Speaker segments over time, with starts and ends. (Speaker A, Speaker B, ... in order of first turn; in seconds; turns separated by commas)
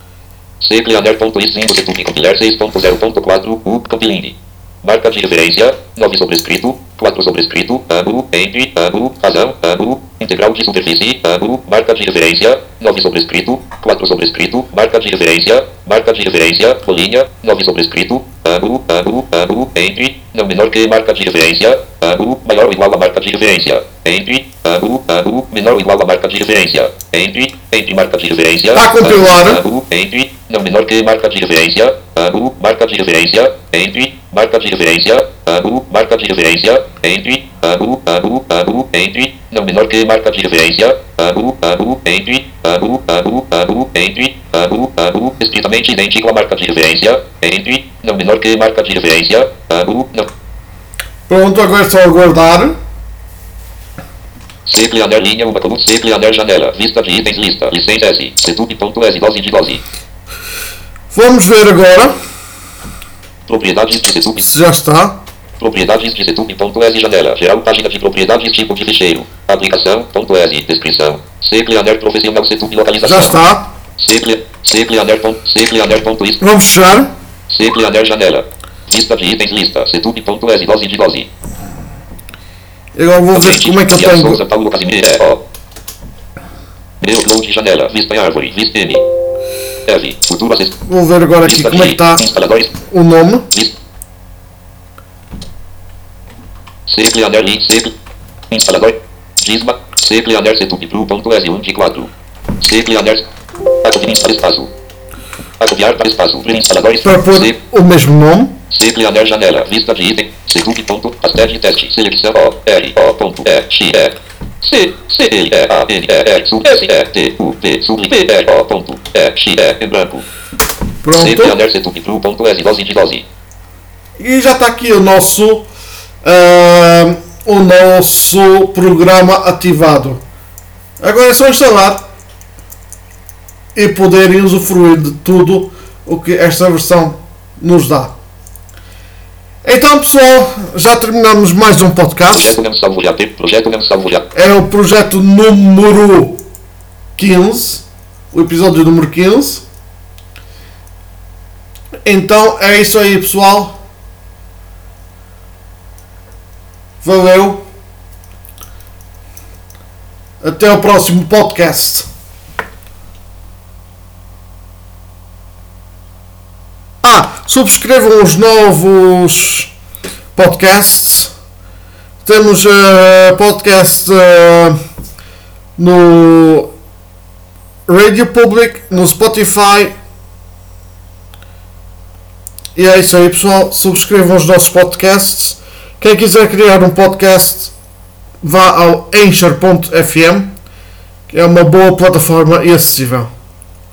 Speaker A: 0.6-50.3, Speaker B: 28.7-29.6, Speaker B: 51.3-52.8, Speaker A: 54.6-59.8, Speaker B: 61.1-62.2, Speaker A: 63.5-64.5, Speaker B: 64.4-65.2, Speaker A: 65.6-76.4, Speaker B: 73.0-73.7, Speaker B: 76.4-77.1, Speaker A: 77.5-81.3, Speaker B: 82.9-84.4, Speaker A: 83.3-85.4, Speaker A: 87.0-89.0, Speaker A: 89.8-90.8, Speaker B: 90.8-92.3, Speaker A: 91.4-92.8, Speaker B: 92.8-93.5, Speaker A: 96.8-97.9, Speaker A: 98.5-103.3, Speaker A: 103.8-104.7, Speaker A: 105.6-107.6, Speaker B: 107.0-108.6, Speaker A: 108.7-120.2, Speaker B: 121.0-121.6, Speaker A: 121.2-123.2, Speaker B: 124.2-125.7, Speaker B: 126.2-130.2, Speaker B: 131.0-132.0, Speaker B: 133.7-138.1, Speaker B: 139.6-142.6, Speaker A: 142.3-144.3, Speaker B: 144.3-146.4, Speaker B: 147.2-149.6, Speaker B: 152.0-153.8, Speaker B: 157.0-157.7, Speaker B: 160.4-162.1, Speaker B: 167.0-169.7, Speaker B: 170.3-171.3, Speaker B: 172.2-174.7, Speaker B: 175.8-176.7, Speaker B: 177.9-179.9, Speaker B: 182.7-187.7, Speaker B: 188.4-190.5, Speaker B: 191.3-193.3